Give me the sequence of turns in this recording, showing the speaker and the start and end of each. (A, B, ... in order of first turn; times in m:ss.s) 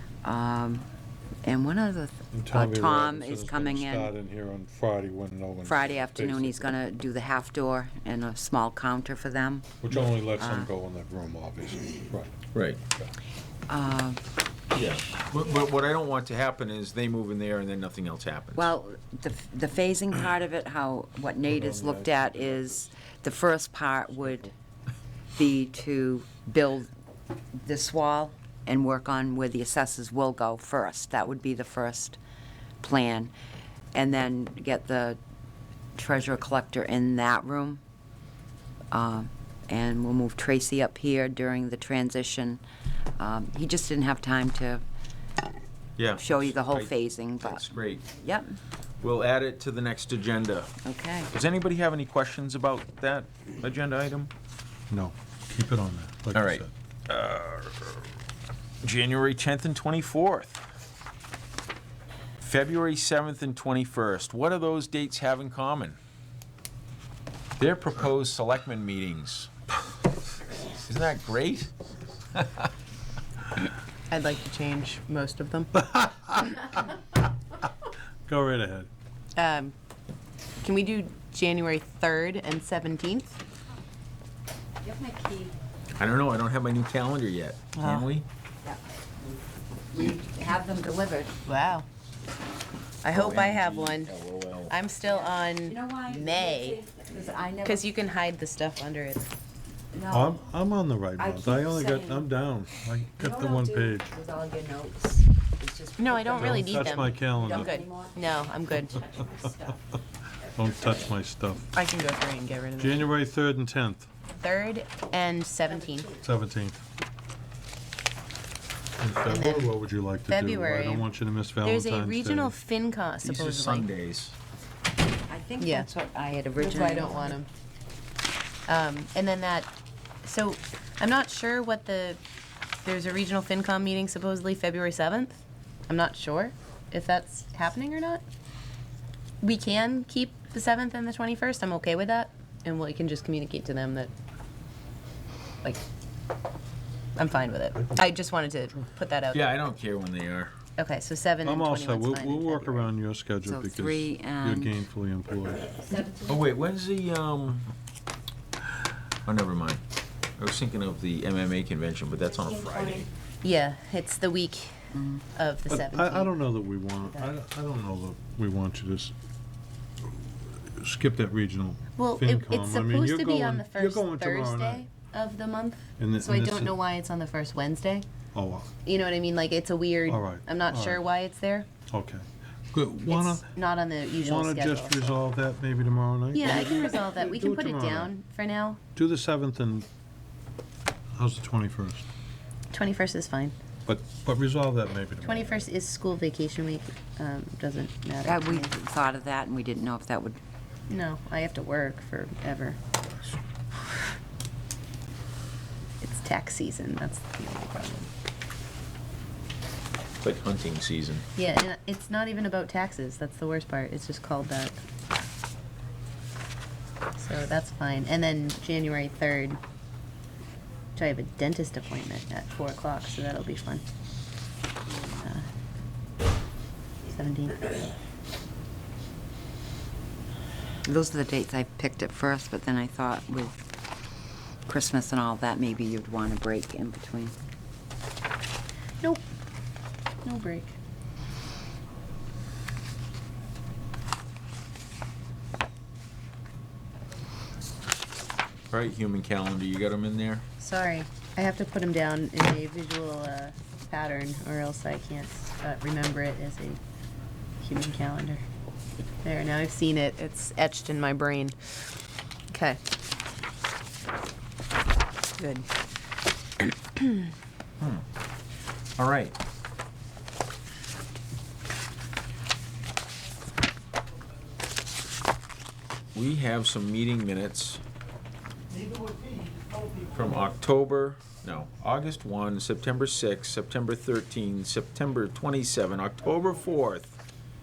0:00.2-0:00.8 A
0:01.4-0:04.1 A
0:02.3-0:06.8 B
0:05.6-0:09.8 A
0:09.8-0:12.4 B
0:10.4-0:10.7 A
0:12.5-0:12.8 C
0:13.7-0:14.2 A
0:14.7-0:18.7 C
0:18.6-0:24.5 A
0:21.4-0:22.9 B
0:25.3-0:26.9 A
0:27.6-0:32.2 A
0:32.8-0:33.3 A
0:33.9-0:35.2 A
0:36.0-0:37.8 A
0:38.9-0:42.6 A
0:43.2-0:44.8 A
0:46.0-0:48.1 C
0:46.2-0:48.6 A
0:49.0-0:50.8 C
0:50.8-0:51.3 A
0:51.3-0:54.3 C
0:54.9-0:56.7 B
0:56.3-0:58.1 C
0:58.8-1:00.6 C
1:02.4-1:06.0 C
1:07.6-1:09.5 C
1:10.8-1:11.7 C
1:12.3-1:12.7 C
1:14.1-1:15.8 D
1:15.8-1:16.6 B
1:18.3-1:18.9 B
1:19.4-1:19.7 D
1:20.6-1:23.4 D
1:24.8-1:25.5 A
1:26.0-1:28.2 C
1:27.8-1:28.1 D
1:28.6-1:29.0 A
1:29.9-1:31.3 A
1:31.4-1:31.9 D
1:33.0-1:34.1 D
1:33.1-1:34.8 C
1:34.7-1:36.8 D
1:35.0-1:37.9 A
1:37.6-1:39.3 D
1:39.9-1:40.4 A
1:40.1-1:44.1 B
1:41.2-1:42.3 A
1:43.2-1:48.2 A
1:46.0-1:49.0 D
1:46.3-1:47.8 B
1:48.9-1:49.8 A
1:50.4-1:51.0 A
1:50.6-1:51.7 B
1:51.8-1:53.1 D
1:52.8-1:54.1 B
1:54.4-1:56.1 D
1:55.7-1:56.2 A
1:56.2-1:56.8 B
1:59.0-2:02.6 B
1:59.3-1:59.7 D
2:00.3-2:01.1 D
2:01.6-2:03.9 D
2:03.2-2:04.3 C
2:05.3-2:07.4 A
2:05.6-2:05.9 D
2:06.6-2:07.5 D
2:08.7-2:09.7 D
2:10.2-2:12.2 D
2:12.8-2:18.2 D
2:19.4-2:24.1 D
2:27.2-2:29.5 D
2:27.8-2:28.1 B
2:29.3-2:30.5 C
2:30.8-2:32.9 D
2:31.4-2:35.8 B
2:33.4-2:34.7 A
2:35.8-2:36.3 A
2:36.2-2:37.7 C
2:39.2-2:39.8 C
2:40.4-2:43.1 C
2:42.2-2:43.1 A
2:43.4-2:44.8 D
2:44.9-2:45.2 A
2:45.3-2:46.4 D
2:45.7-2:49.1 B
2:50.1-2:54.8 B
2:52.0-2:58.1 D
2:56.0-2:56.8 B
2:58.3-2:58.7 B
2:58.8-3:01.7 D
3:00.1-3:01.0 B
3:01.9-3:03.5 B
3:03.1-3:05.2 D
3:04.2-3:08.1 B
3:06.3-3:08.8 D
3:08.9-3:09.9 B
3:11.2-3:12.0 B
3:12.7-3:13.5 D
3:13.8-3:15.7 B
3:15.2-3:18.7 D
3:18.2-3:20.4 A
3:20.9-3:22.8 D
3:26.0-3:28.1 D
3:30.2-3:31.2 C
3:31.4-3:34.8 D
3:37.2-3:39.6 D
3:41.0-3:43.8 D
3:45.0-3:45.4 D
3:47.1-3:47.7 D
3:50.8-3:53.5 A
3:54.7-3:57.3 A
4:00.2-4:00.8 D
4:08.7-4:10.4 C
4:10.6-4:16.8 D
4:17.6-4:18.4 D
4:19.2-4:21.6 D
4:22.5-4:22.8 D
4:25.4-4:25.6 D
4:29.0-4:29.3 C
4:36.1-4:37.8 C
4:40.1-4:47.2 C